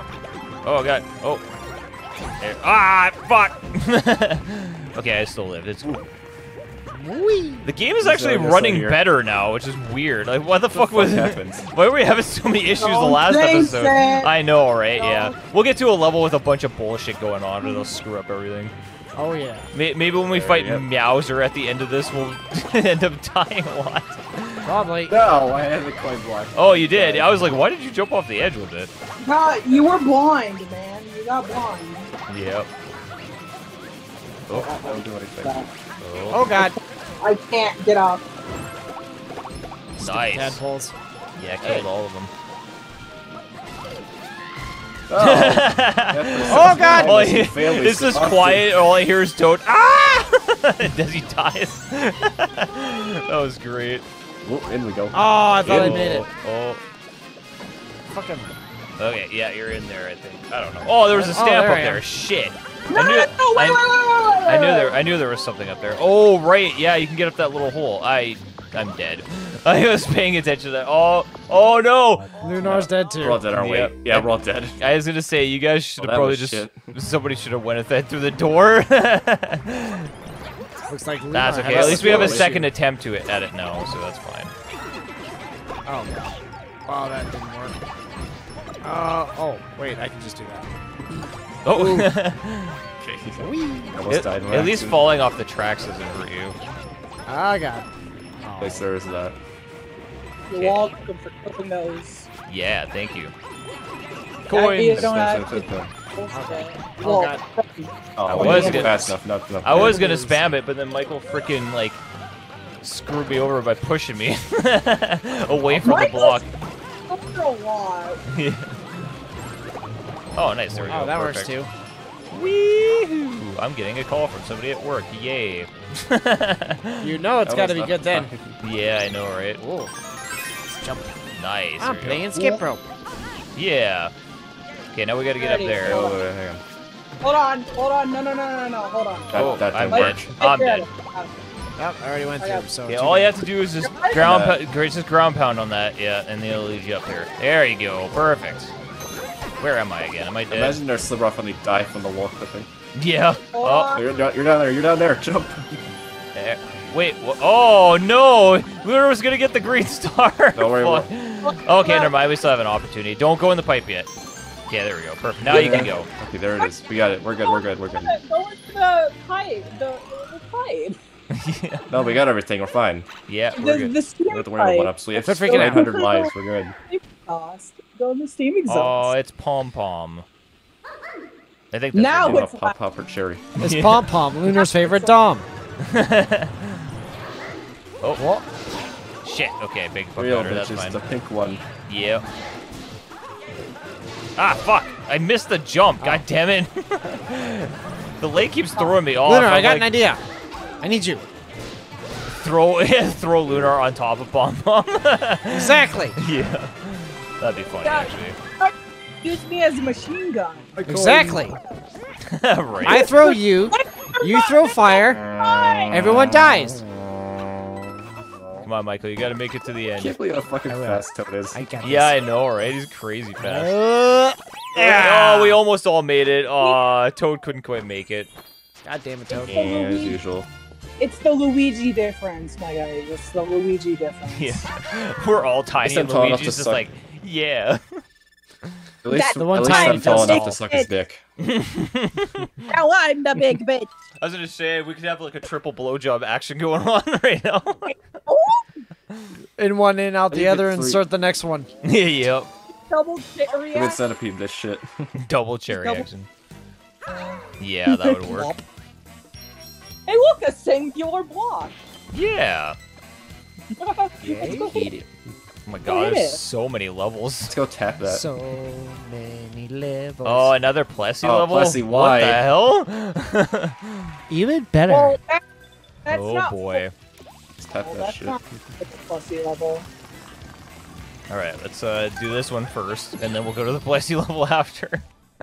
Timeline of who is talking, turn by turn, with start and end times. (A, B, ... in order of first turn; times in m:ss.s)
0:00.6-0:01.4 A
0:02.4-0:06.0 A
0:06.9-0:07.7 B
0:07.6-0:18.7 A
0:08.0-0:09.0 C
0:10.7-0:11.7 C
0:12.8-0:14.3 D
0:15.0-0:15.4 D
0:19.2-0:19.7 B
0:19.7-0:24.7 A
0:20.2-0:20.8 C
0:24.6-0:25.1 B
0:25.1-0:27.5 C
0:26.6-0:28.9 A
0:29.2-0:32.1 D
0:32.3-0:32.7 A
0:34.5-0:34.8 A
0:34.5-0:35.7 D
0:34.6-0:35.6 C
0:36.0-0:36.4 A
0:36.3-0:36.7 B
0:36.6-0:38.2 D
0:40.0-0:40.9 B
0:40.0-0:40.6 A
0:41.4-0:42.3 A
0:45.1-0:48.6 C
0:45.2-0:54.0 A
0:46.5-0:47.4 B
0:54.4-0:56.0 C
0:55.1-0:56.2 B
0:55.6-0:56.8 A
0:58.1-0:58.5 B
0:59.0-1:03.8 A
1:01.1-1:02.0 B
1:02.9-1:05.0 D
1:04.4-1:12.9 A
1:12.4-1:13.4 B
1:13.2-1:14.8 C
1:13.5-1:20.1 A
1:16.0-1:16.8 C
1:20.9-1:22.7 B
1:21.3-1:24.5 A
1:21.7-1:22.5 C
1:25.9-1:26.3 B
1:26.9-1:27.8 B
1:28.8-1:30.7 B
1:31.6-1:32.8 A
1:31.7-1:32.1 B
1:33.0-1:35.1 C
1:33.4-1:34.0 B
1:34.1-1:36.6 A
1:37.3-1:37.9 B
1:38.4-1:38.9 B
1:38.6-1:39.4 C
1:40.5-1:42.3 D
1:40.5-1:40.8 A
1:42.5-1:43.3 A
1:44.5-1:45.1 A
1:44.5-1:49.0 D
1:44.9-1:45.9 C
1:46.3-1:47.4 B
1:48.2-1:50.1 C
1:48.3-1:49.1 A
1:48.5-1:49.0 B
1:49.6-1:52.0 A
1:49.7-1:50.4 B
1:52.8-1:56.5 A
1:55.8-1:56.4 D
1:57.1-1:58.2 D
1:58.3-1:58.8 A
2:00.4-2:01.5 A
2:00.9-2:01.7 B
2:02.3-2:07.1 A
2:07.0-2:08.3 B
2:07.4-2:08.5 C
2:08.6-2:09.6 A
2:09.6-2:09.9 B
2:10.7-2:11.1 B
2:11.3-2:12.2 A
2:11.8-2:12.8 B
2:12.3-2:12.6 D
2:13.6-2:14.1 A
2:14.9-2:16.1 A
2:15.4-2:16.2 D
2:15.8-2:16.6 C
2:17.2-2:21.3 D
2:19.3-2:20.3 C
2:19.3-2:20.8 A
2:21.8-2:23.4 B
2:22.4-2:22.6 D
2:22.9-2:28.7 A
2:23.8-2:24.2 D
2:24.1-2:24.6 C
2:29.6-2:30.8 A
2:30.5-2:32.7 C
2:33.0-2:34.0 A
2:33.5-2:34.1 D
2:33.9-2:35.8 C
2:36.3-2:44.1 A
2:40.6-2:41.1 C
2:41.4-2:42.1 D
2:44.7-2:46.1 A
2:45.4-2:48.2 C
2:47.4-2:51.0 D
2:51.3-2:51.9 A
2:51.9-2:53.1 C
2:53.3-2:53.9 A
2:53.6-2:56.3 D
2:54.3-2:56.8 C
2:55.2-2:56.0 B
2:56.9-2:59.1 D
2:58.7-3:00.2 A
3:01.7-3:02.5 A
3:01.9-3:02.8 D
3:02.2-3:03.4 C
3:03.6-3:04.1 A
3:03.6-3:05.5 B
3:04.6-3:05.2 D
3:05.8-3:06.8 A
3:08.2-3:08.4 B
3:09.2-3:11.0 A
3:10.2-3:11.6 C
3:11.9-3:12.2 A
3:14.4-3:19.9 A
3:19.2-3:20.2 B
3:20.8-3:21.3 B
3:22.4-3:28.4 A
3:25.5-3:26.2 B
3:27.8-3:30.7 D
3:30.8-3:31.5 C
3:30.8-3:31.6 B
3:32.3-3:33.4 A
3:32.9-3:35.2 B
3:32.9-3:36.0 D
3:35.9-3:36.8 B
3:38.6-3:40.2 A
3:40.0-3:41.6 C
3:40.7-3:42.2 B
3:41.8-3:43.8 A
3:43.4-3:45.6 B
3:44.8-3:48.3 A
3:48.8-3:49.7 B
3:49.3-3:50.2 D
3:49.5-3:50.5 C
3:51.0-3:54.6 D
3:54.3-3:58.0 A
3:55.8-3:56.8 C
3:59.0-4:01.2 C
3:59.1-4:00.9 D
3:59.4-4:00.6 B
4:01.4-4:02.7 A
4:02.7-4:03.9 D
4:04.2-4:07.9 A
4:07.9-4:08.8 D
4:09.6-4:11.7 B
4:10.3-4:11.0 C
4:11.8-4:12.5 A
4:12.9-4:14.0 D
4:13.7-4:15.1 C
4:15.2-4:16.3 A
4:15.7-4:16.1 D
4:17.1-4:18.6 D
4:17.6-4:18.5 A
4:20.1-4:21.8 D
4:22.1-4:22.8 A
4:23.8-4:24.9 D
4:24.2-4:24.5 A
4:24.2-4:24.8 B
4:24.6-4:25.1 C
4:25.7-4:27.5 A
4:25.9-4:26.4 D
4:27.5-4:28.2 C
4:28.0-4:30.5 B
4:30.2-4:34.1 A
4:31.2-4:32.4 C
4:34.3-4:35.2 B
4:34.9-4:35.4 D
4:36.0-4:36.8 D
4:36.1-4:36.9 A
4:37.6-4:38.4 C
4:37.8-4:39.9 D
4:41.3-4:45.1 A